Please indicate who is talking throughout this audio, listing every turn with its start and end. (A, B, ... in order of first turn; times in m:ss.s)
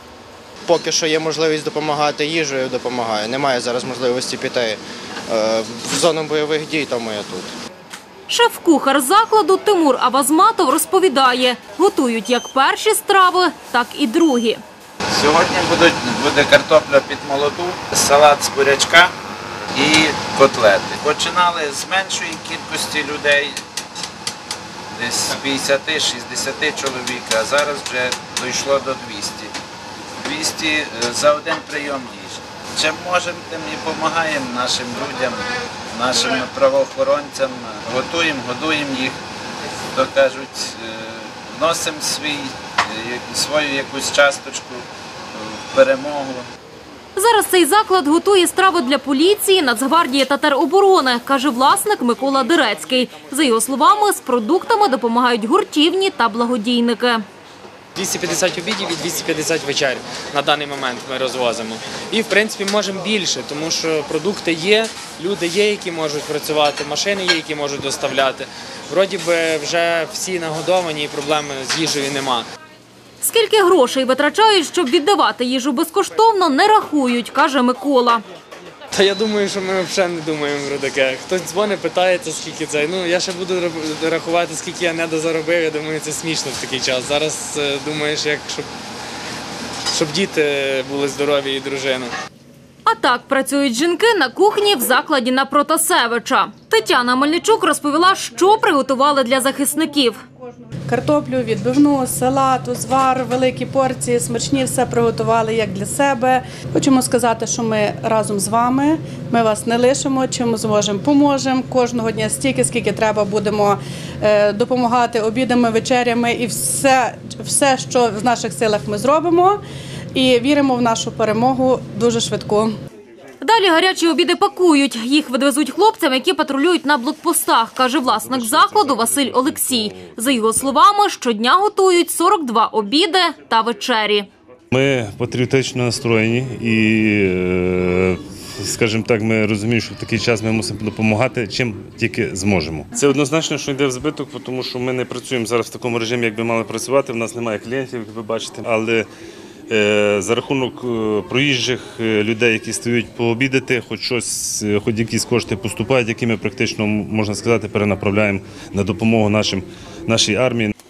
0:00.7-0:07.5 A
0:08.3-0:14.6 B
0:15.1-0:19.1 C
0:19.8-0:23.6 C
0:24.9-0:29.5 C
0:30.2-0:39.2 C
0:39.9-0:46.4 C
0:47.2-0:57.2 B
0:58.0-1:12.4 D
1:13.2-1:18.2 B
1:18.9-1:28.7 D
1:29.9-1:32.1 D
1:32.8-1:40.2 B
1:40.9-1:59.6 E
2:00.1-2:02.7 E
2:03.4-2:14.3 B
2:08.0-2:10.6 F
2:14.7-2:29.0 F
2:29.7-2:40.7 F